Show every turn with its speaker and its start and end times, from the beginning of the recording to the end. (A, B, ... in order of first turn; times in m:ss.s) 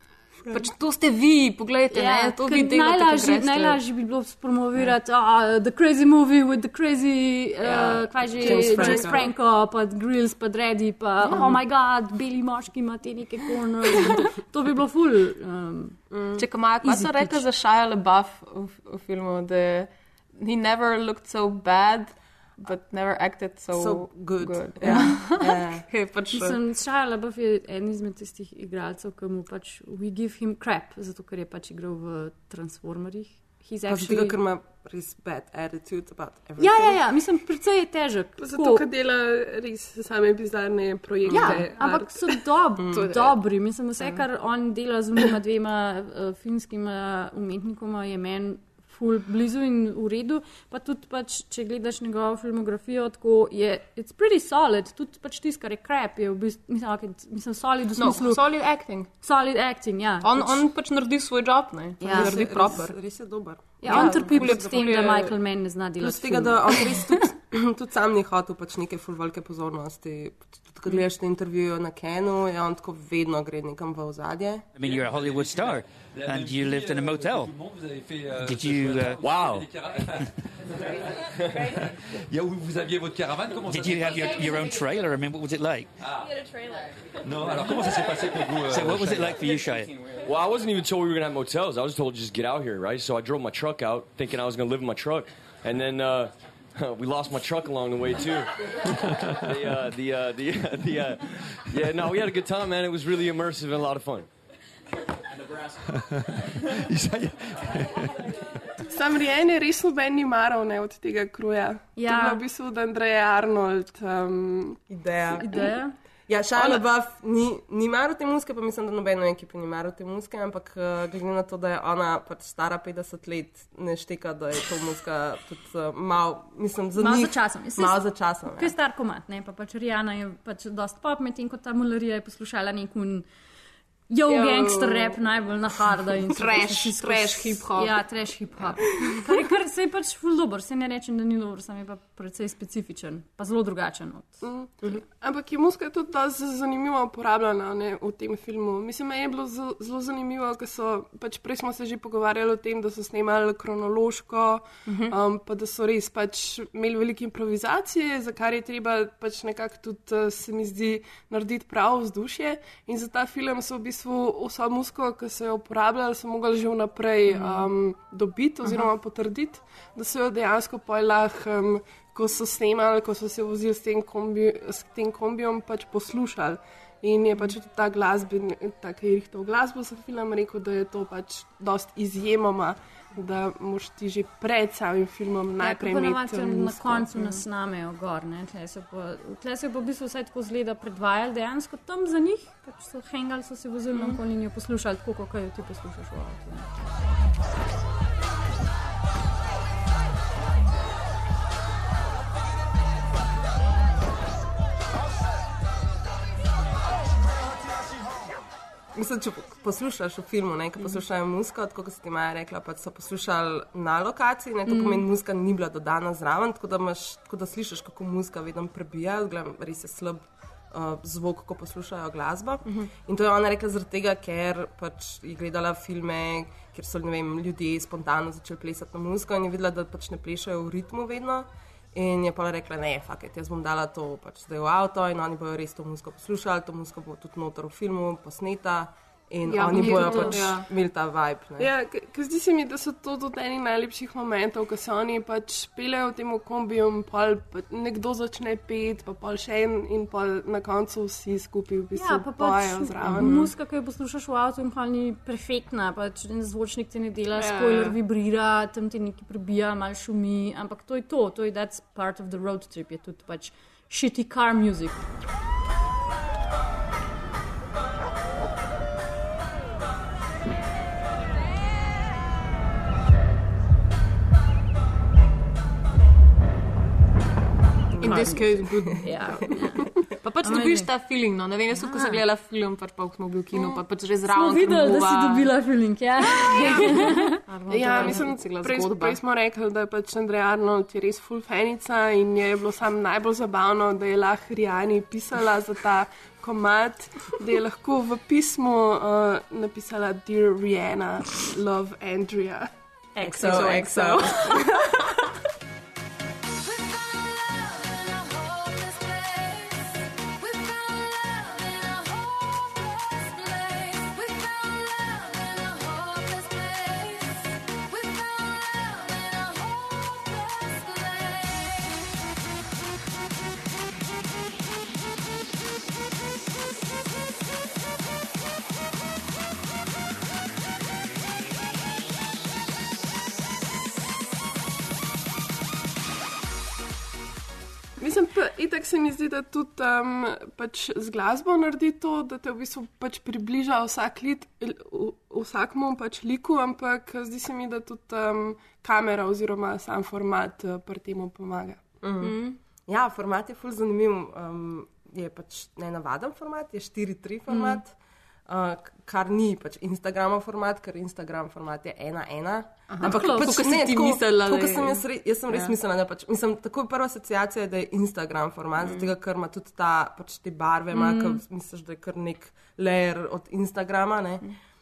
0:00.4-0:00.7 A
0:00.5-0:03.8 B
0:01.9-0:16.0 C
0:07.6-0:09.1 B
0:08.4-0:09.3 A
0:11.2-0:11.6 B
0:16.1-0:16.4 A
0:16.4-0:26.6 B
0:16.8-0:17.4 C
0:23.7-0:25.8 A
0:26.3-0:34.4 C
0:33.9-0:37.0 A
0:36.6-0:38.8 C
0:38.4-0:42.4 D
0:41.3-0:58.4 C
0:41.4-0:41.6 B
0:42.8-0:43.1 A
0:42.9-0:43.4 B
0:58.0-0:59.1 B
0:59.2-1:00.6 C
1:00.2-1:02.9 B
1:02.0-1:02.8 C
1:02.0-1:04.6 A
1:03.8-1:05.3 B
1:03.8-1:06.8 C
1:06.0-1:14.6 A
1:14.8-1:17.5 E
1:14.8-1:24.8 F
1:18.4-1:19.6 E
1:23.7-1:25.9 E
1:26.0-1:26.4 F
1:27.2-1:29.5 F
1:28.6-1:29.9 E
1:30.2-1:38.5 G
1:39.4-1:44.3 G
1:45.5-1:45.8 F
1:46.9-1:47.2 F
1:48.9-1:54.8 D
1:52.0-1:52.4 C
1:54.9-1:55.7 A
1:55.4-1:56.0 C
1:56.3-2:08.7 A
2:07.0-2:13.2 C
2:14.1-2:24.4 C
2:16.3-2:18.0 B
2:24.4-3:07.1 D
3:05.6-3:16.7 C
3:28.9-4:01.7 A
3:34.7-3:35.0 C
3:59.5-4:00.7 B
3:59.8-4:00.3 C
4:01.6-4:13.5 D
4:11.9-4:25.0 C
4:17.4-4:17.9 B
4:37.9-4:39.1 A
4:38.0-4:39.4 B
4:38.0-4:39.9 C
4:40.2-4:45.5 B
4:40.4-4:40.9 C
4:41.7-4:42.2 C
4:44.3-4:48.2 C
4:46.3-4:49.2 B
4:46.5-4:47.0 D
4:47.7-5:02.7 D
5:03.2-5:04.3 C
5:03.2-5:04.6 A
5:03.3-5:04.6 D
5:38.0-5:51.8 D
5:52.0-5:57.9 A
5:52.2-5:52.6 B
5:57.5-5:57.8 C
5:58.5-6:14.5 A
6:02.9-6:05.7 B
6:03.0-6:03.6 C
6:08.8-6:09.1 B
6:10.9-6:11.2 C